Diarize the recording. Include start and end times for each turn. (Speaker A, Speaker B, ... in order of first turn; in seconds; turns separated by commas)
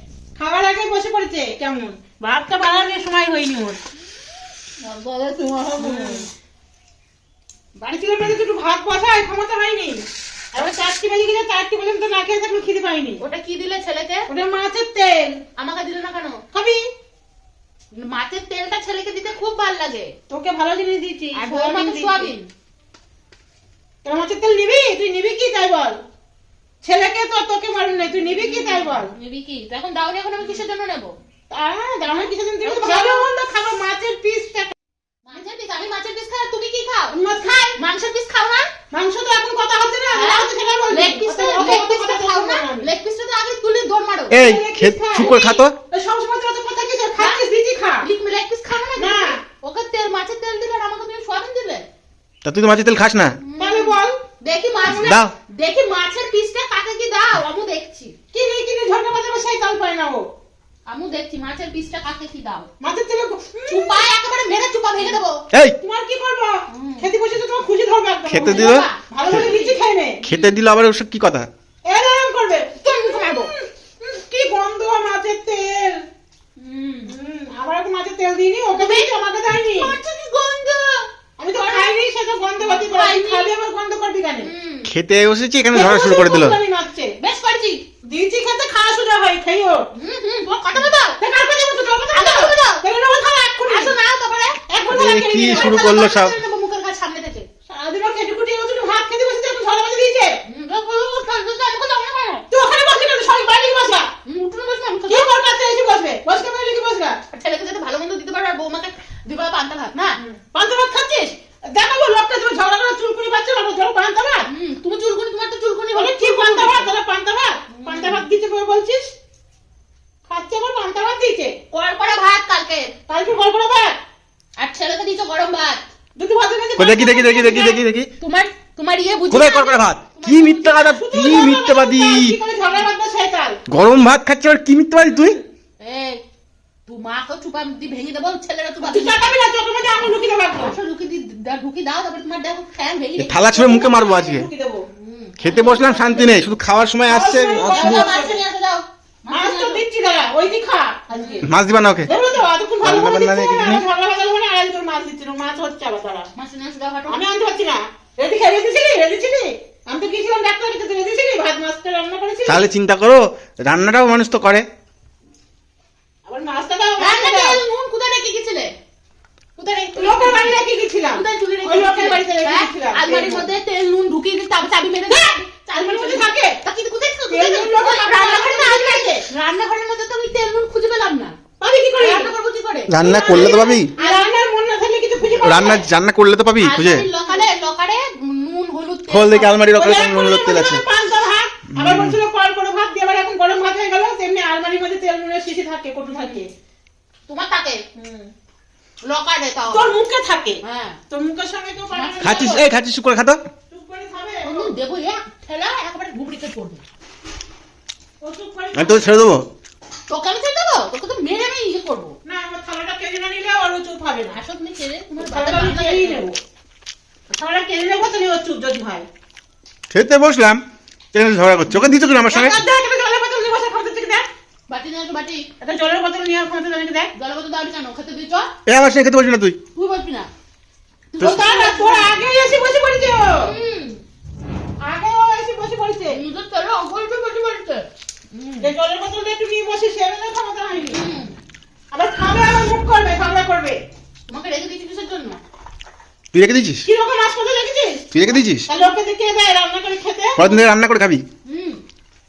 Speaker A: 0.4-3.8, Speaker B: 4.8-6.3, Speaker A: 5.8-6.3, Speaker A: 7.8-13.2, Speaker B: 13.2-14.3, Speaker A: 14.3-15.4, Speaker B: 15.6-16.4, Speaker A: 16.5-16.8, Speaker B: 17.9-20.1, Speaker A: 20.3-22.4, Speaker B: 21.3-22.5, Speaker A: 24.0-26.0, Speaker A: 26.8-29.1, Speaker B: 28.3-31.2, Speaker A: 30.4-30.6, Speaker A: 31.5-34.7, Speaker B: 32.1-33.3, Speaker B: 35.3-37.2, Speaker A: 37.1-37.8, Speaker B: 37.7-38.7, Speaker A: 38.9-42.9, Speaker B: 40.1-44.4, Speaker C: 44.3-45.8, Speaker A: 44.3-48.1, Speaker B: 45.2-45.6, Speaker B: 48.0-51.9, Speaker A: 49.0-49.4, Speaker C: 52.4-53.4, Speaker B: 53.4-58.1, Speaker A: 53.6-54.2, Speaker C: 54.9-55.3, Speaker A: 58.3-60.3, Speaker B: 60.9-62.7, Speaker A: 62.8-64.0, Speaker B: 63.7-65.5, Speaker C: 65.5-65.8, Speaker A: 65.8-70.2, Speaker B: 66.7-67.1, Speaker C: 68.3-68.9, Speaker B: 68.4-70.6, Speaker C: 70.2-71.5, Speaker A: 71.8-76.0, Speaker B: 72.8-73.5, Speaker B: 76.6-77.1, Speaker A: 77.1-80.0, Speaker B: 78.8-81.9, Speaker A: 81.4-84.5, Speaker B: 82.6-83.5, Speaker B: 84.4-84.9, Speaker C: 84.9-86.6, Speaker A: 85.7-87.2, Speaker B: 87.2-87.8, Speaker A: 88.1-89.9, Speaker B: 90.0-91.2, Speaker A: 91.2-93.9, Speaker B: 92.1-92.8, Speaker B: 93.7-94.6, Speaker A: 94.7-95.9, Speaker C: 94.9-96.3, Speaker B: 95.5-97.5, Speaker A: 97.7-100.4, Speaker B: 100.5-102.5, Speaker A: 102.5-104.1, Speaker B: 104.2-105.4, Speaker A: 105.1-107.2, Speaker B: 107.3-110.2, Speaker A: 110.2-114.5, Speaker B: 114.5-116.9, Speaker A: 115.9-119.1, Speaker B: 117.7-118.3, Speaker A: 120.3-121.6, Speaker B: 121.7-122.9, Speaker A: 123.1-124.0, Speaker B: 124.6-125.9, Speaker A: 126.2-127.8, Speaker C: 126.8-128.1, Speaker B: 128.2-131.1, Speaker C: 129.3-132.4, Speaker A: 130.7-133.6, Speaker C: 133.7-135.4, Speaker B: 135.8-136.2, Speaker B: 136.9-139.3, Speaker A: 138.8-140.8, Speaker B: 140.6-143.5, Speaker C: 143.2-144.5, Speaker A: 143.5-144.9, Speaker B: 144.9-146.5, Speaker C: 145.4-148.1, Speaker A: 147.1-148.4, Speaker B: 147.6-149.8, Speaker A: 149.3-151.5, Speaker B: 151.2-151.5, Speaker C: 151.4-152.1, Speaker A: 152.1-156.3, Speaker C: 152.8-153.8, Speaker B: 156.3-157.3, Speaker A: 157.1-162.7, Speaker C: 162.5-164.7, Speaker A: 166.2-167.6, Speaker B: 167.0-168.8, Speaker B: 169.6-181.4, Speaker A: 170.0-173.5, Speaker A: 175.1-176.6, Speaker A: 177.3-179.3, Speaker A: 181.6-182.3, Speaker B: 182.0-184.3, Speaker C: 182.9-183.9, Speaker A: 183.0-185.9, Speaker C: 185.4-187.1, Speaker B: 186.6-189.6, Speaker C: 189.1-190.8, Speaker A: 189.6-196.5, Speaker C: 191.7-192.2, Speaker B: 197.3-197.8, Speaker A: 198.0-198.3, Speaker B: 199.0-199.9, Speaker A: 199.7-202.7, Speaker B: 200.6-201.0, Speaker B: 201.9-202.6, Speaker C: 202.2-203.4, Speaker A: 203.7-204.7, Speaker B: 204.4-206.8, Speaker A: 208.2-209.1, Speaker C: 208.7-209.5, Speaker B: 210.1-212.2, Speaker A: 212.3-214.4, Speaker B: 214.3-216.3, Speaker A: 215.2-216.4, Speaker A: 217.3-219.1, Speaker C: 219.9-220.6, Speaker C: 221.1-222.6, Speaker A: 221.7-224.3, Speaker B: 224.7-225.5, Speaker A: 225.6-227.1, Speaker B: 227.2-228.5, Speaker C: 228.7-229.6, Speaker B: 229.7-230.3, Speaker B: 231.1-232.2, Speaker A: 231.2-233.5, Speaker B: 233.4-234.0, Speaker A: 234.8-236.2, Speaker B: 236.1-238.7, Speaker A: 238.6-241.0, Speaker B: 240.9-241.3, Speaker A: 241.9-243.8, Speaker B: 244.3-245.4, Speaker C: 246.3-246.9, Speaker A: 246.8-248.0, Speaker C: 248.1-248.7, Speaker A: 248.7-250.6, Speaker C: 250.4-251.2, Speaker B: 251.4-251.8